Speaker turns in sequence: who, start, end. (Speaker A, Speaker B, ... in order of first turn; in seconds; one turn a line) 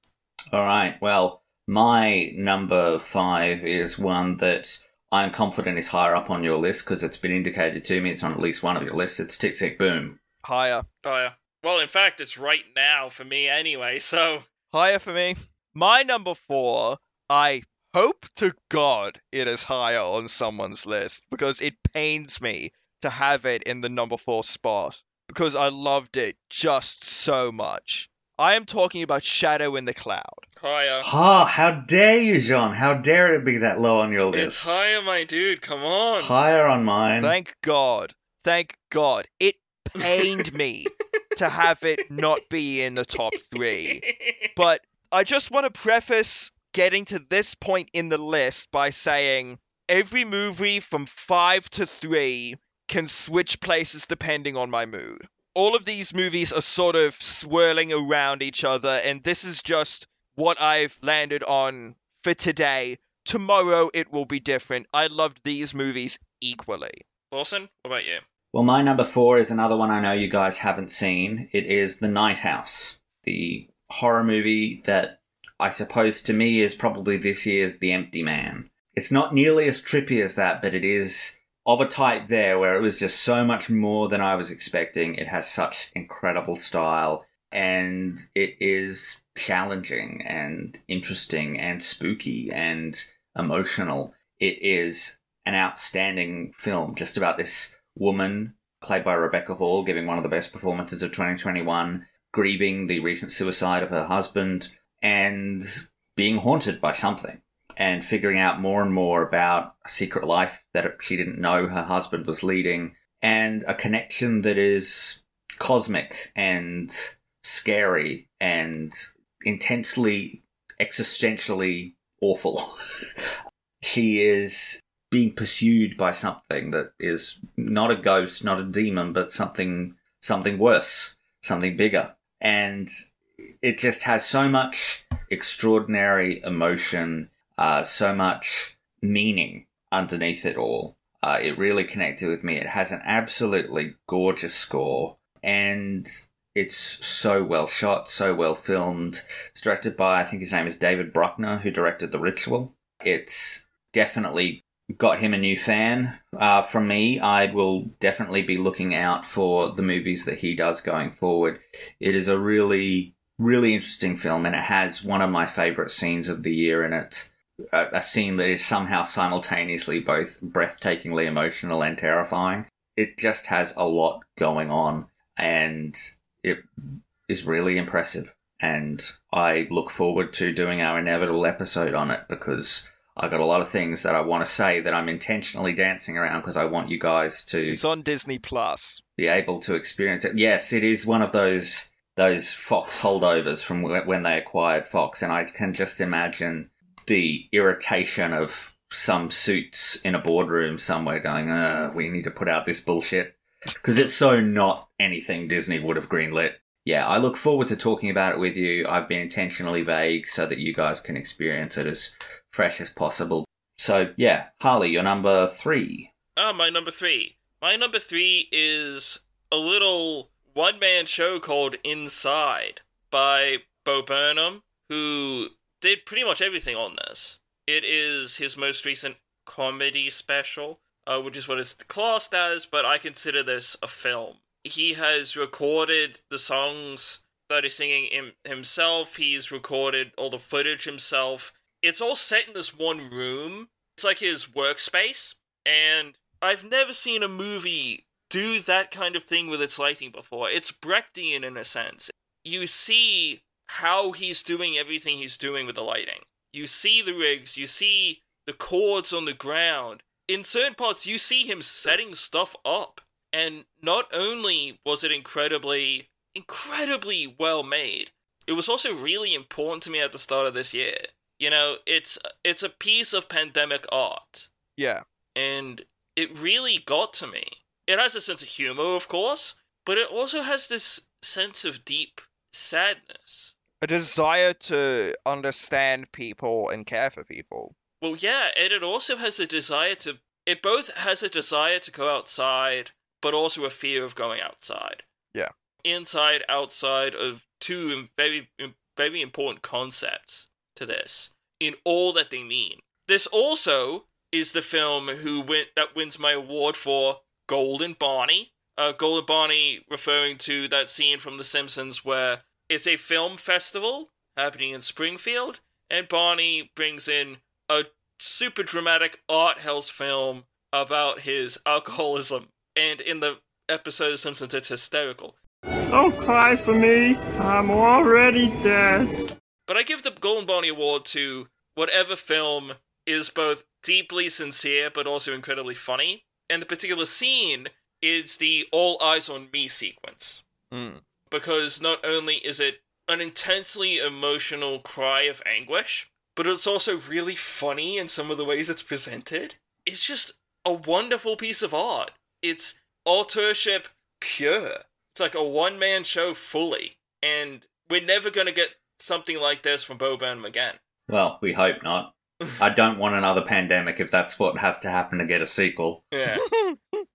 Speaker A: 0.5-10.2
Speaker B: 10.4-10.9
Speaker C: 11.0-14.5
Speaker B: 14.7-30.4
Speaker C: 30.6-31.1
Speaker A: 31.0-34.8
Speaker C: 34.3-36.4
Speaker A: 36.2-37.3
Speaker B: 37.2-67.0
Speaker C: 43.4-44.5
Speaker C: 67.3-68.2
Speaker A: 68.5-122.7
Speaker A: 123.8-132.9
Speaker A: 133.6-176.6
Speaker A: 177.3-187.8
Speaker B: 187.7-189.0
Speaker A: 189.2-216.1
Speaker C: 216.3-274.5
Speaker B: 274.8-275.0
Speaker C: 275.3-283.5
Speaker B: 283.8-287.7
Speaker C: 288.0-295.0
Speaker C: 295.8-325.4
Speaker D: 325.9-329.1
Speaker C: 329.7-340.4
Speaker B: 340.7-341.0
Speaker C: 341.3-360.8
Speaker A: 361.1-366.0
Speaker C: 366.1-366.4
Speaker B: 366.3-367.0